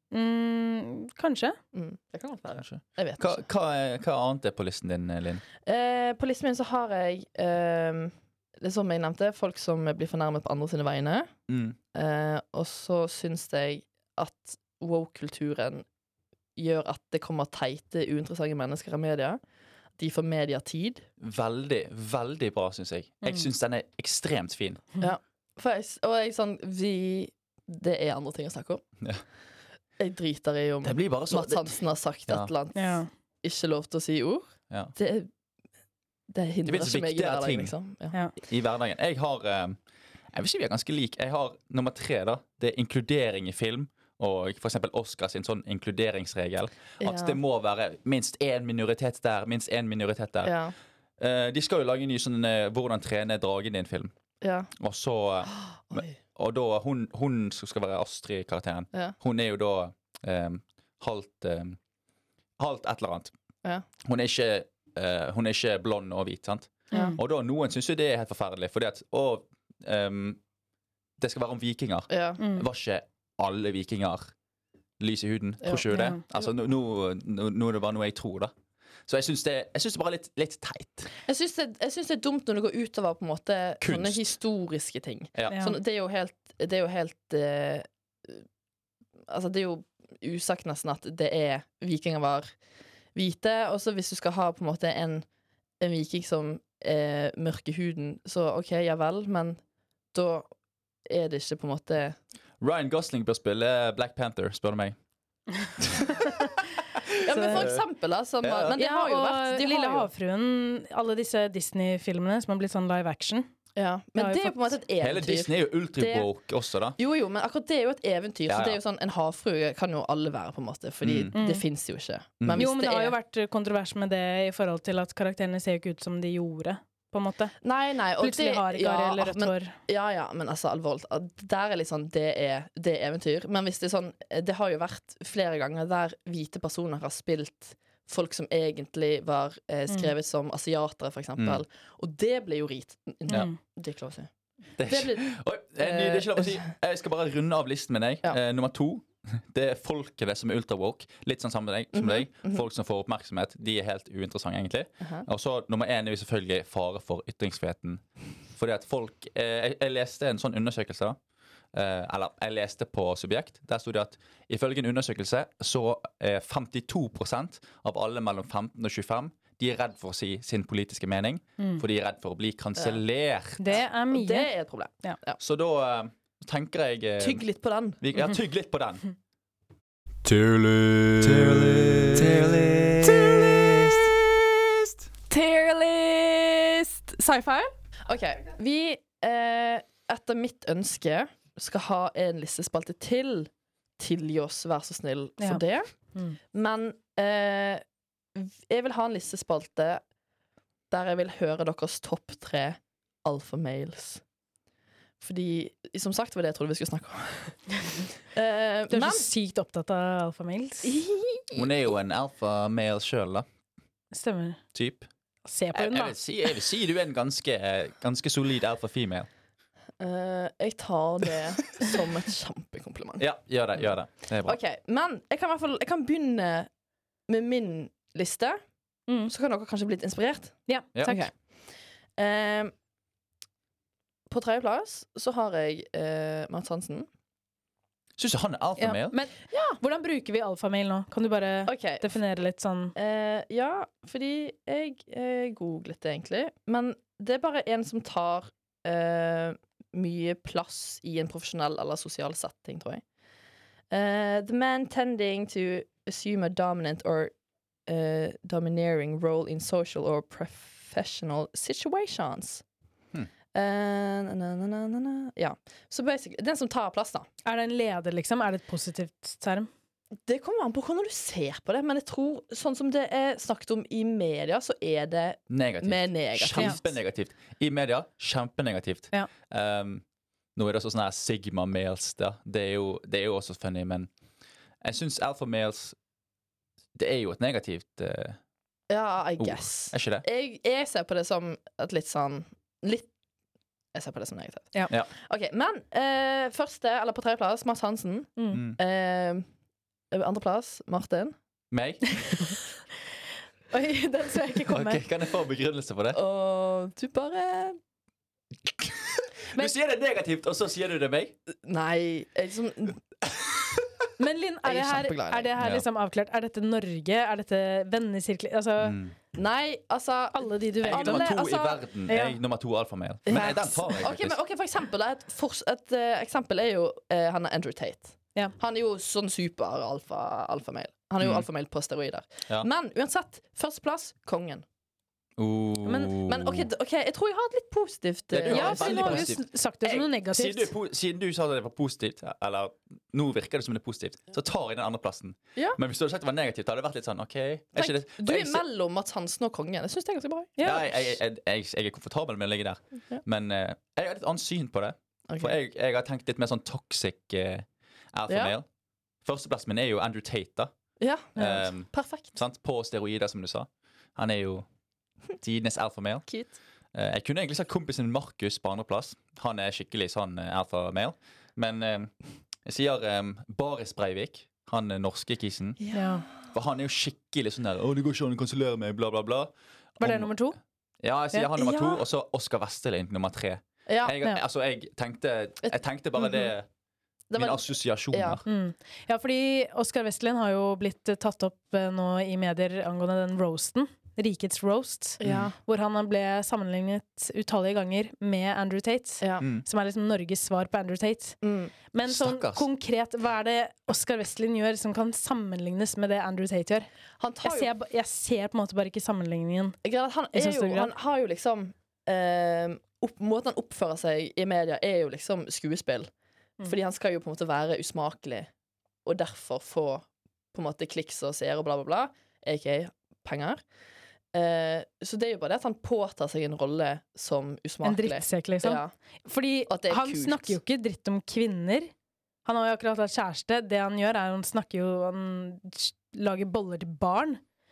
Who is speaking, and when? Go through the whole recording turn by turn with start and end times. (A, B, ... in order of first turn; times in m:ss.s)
0:00.1-0:01.6 A
0:01.7-0:03.4 B
0:02.6-0:05.4 C
0:05.7-0:11.3 B
0:11.5-0:11.8 C
0:11.9-0:15.9 B
0:16.6-0:19.4 B
0:20.0-0:21.1 B
0:21.2-0:24.8 C
0:23.2-0:23.5 A
0:25.0-0:28.8 B
0:30.0-0:35.3 B
0:30.8-0:31.7 C
0:32.8-0:33.1 A
0:36.3-0:38.2 B
0:36.7-0:37.7 C
0:38.5-0:39.8 C
0:40.3-0:50.6 C
0:47.0-0:47.4 B
0:50.4-0:50.7 B
0:51.2-0:54.1 C
0:54.4-0:54.7 B
0:54.8-1:01.8 C
0:55.5-0:56.2 B
1:02.6-1:03.3 C
1:04.0-1:10.4 C
1:06.9-1:07.2 A
1:06.9-1:07.2 B
1:11.2-1:14.3 C
1:12.1-1:12.4 B
1:12.4-1:12.7 A
1:15.0-1:18.5 C
1:15.9-1:16.2 A
1:19.1-1:21.1 C
1:21.3-1:28.4 B
1:23.8-1:24.3 C
1:25.4-1:25.6 C
1:29.3-1:32.5 B
1:33.2-1:35.3 B
1:35.8-1:39.6 B
1:40.1-1:40.5 B
1:41.1-1:42.2 B
1:42.6-1:45.0 C
1:46.0-1:46.3 C
1:47.2-1:50.1 B
1:47.3-1:47.7 A
1:47.4-1:47.8 C
1:48.4-1:48.8 C
1:48.8-1:53.5 A
1:53.8-1:56.3 B
1:54.2-1:54.7 A
1:55.0-1:57.0 C
1:57.0-2:03.2 B
1:58.5-1:58.8 C
2:01.0-2:01.3 C
2:01.4-2:01.6 A
2:02.4-2:02.7 C
2:02.6-2:07.6 A
2:07.6-2:24.3 B
2:08.2-2:09.8 A
2:21.4-2:21.6 C
2:23.3-2:23.6 A
2:24.8-2:38.0 C
2:24.8-2:26.7 B
2:31.9-2:32.6 B
2:35.0-2:35.3 B
2:38.6-2:41.2 C
2:41.7-2:53.6 C
2:51.6-2:51.8 A
2:53.6-2:54.5 A
2:53.7-2:55.4 B
2:55.4-2:57.4 C
2:57.2-2:58.0 B
2:58.0-2:59.0 C
3:00.2-3:03.9 C
3:03.0-3:04.0 B
3:05.3-3:15.9 B
3:16.5-3:17.8 B
3:18.4-3:20.0 B
3:20.9-3:24.2 B
3:25.2-3:27.6 B
3:28.2-3:29.3 B
3:28.9-3:31.0 A
3:30.8-3:31.6 B
3:31.5-3:33.5 C
3:34.1-3:34.6 A
3:34.7-3:35.1 C
3:35.5-3:36.2 A
3:35.7-3:39.3 C
3:40.0-3:43.3 B
3:43.2-3:44.6 C
3:44.4-3:46.7 B
3:47.3-3:48.6 B
3:49.3-3:51.3 B
3:50.7-3:51.3 A
3:52.2-3:52.7 B
3:54.3-3:57.1 B
3:58.2-3:59.2 C
3:58.8-4:03.0 A
3:59.5-3:59.8 B
4:01.7-4:02.1 B
4:03.0-4:13.0 B
4:13.9-4:17.3 B
4:17.9-4:22.6 B
4:23.5-4:27.3 B
4:27.4-4:29.7 A
4:30.3-4:37.0 B
4:35.5-4:40.0 C
4:40.6-4:44.1 C
4:44.8-4:46.0 C
4:47.0-4:48.4 C
4:48.9-4:53.1 B
4:49.4-4:50.2 C
4:54.0-4:59.5 B
4:58.5-4:58.8 C
5:00.1-5:01.4 B
5:01.7-5:02.2 C
5:03.7-5:05.0 A
5:04.7-5:06.2 C
5:06.1-5:07.8 B
5:08.7-5:11.4 C
5:11.6-5:13.0 B
5:14.2-5:19.0 A
5:14.6-5:15.5 B
5:15.6-5:15.8 C
5:18.8-5:19.2 C
5:19.3-5:21.8 B
5:20.3-5:21.4 A
5:20.9-5:24.4 C
5:22.1-5:22.4 A
5:23.3-5:34.6 B
5:23.3-5:24.0 A
5:31.2-5:31.5 C
5:35.4-5:36.7 C
5:36.2-5:39.3 B
5:38.3-5:48.6 C
5:38.5-5:40.7 A
5:47.8-5:50.6 B
5:50.6-5:51.0 A
5:50.6-5:58.7 C
5:55.3-5:55.6 B
5:58.3-5:58.6 B
5:59.2-6:00.7 C
6:01.0-6:02.3 B
6:01.4-6:04.7 C
6:01.4-6:01.6 A
6:05.4-6:06.3 C
6:06.3-6:06.6 B
6:06.9-6:12.1 C
6:12.6-6:15.8 C
6:15.8-6:16.2 B
6:15.9-6:16.3 A
6:16.4-6:20.3 C
6:20.0-6:20.6 A
6:21.0-6:26.7 C
6:21.6-6:22.0 B
6:23.9-6:24.2 B
6:27.3-6:28.4 B
6:27.4-6:28.4 C
6:28.5-6:41.4 A
6:35.2-6:35.6 B
6:35.2-6:35.5 C
6:39.4-6:39.7 C
6:41.4-6:41.7 B
6:41.9-6:46.9 A
6:42.1-6:42.7 C
6:47.2-6:47.7 B
6:47.4-6:49.8 A
6:49.8-6:56.1 B
6:50.3-6:50.9 A
6:56.6-6:58.5 B
6:59.0-7:03.6 B
7:04.3-7:08.9 B
7:07.8-7:11.9 A
7:09.7-7:10.6 B
7:12.4-7:17.4 A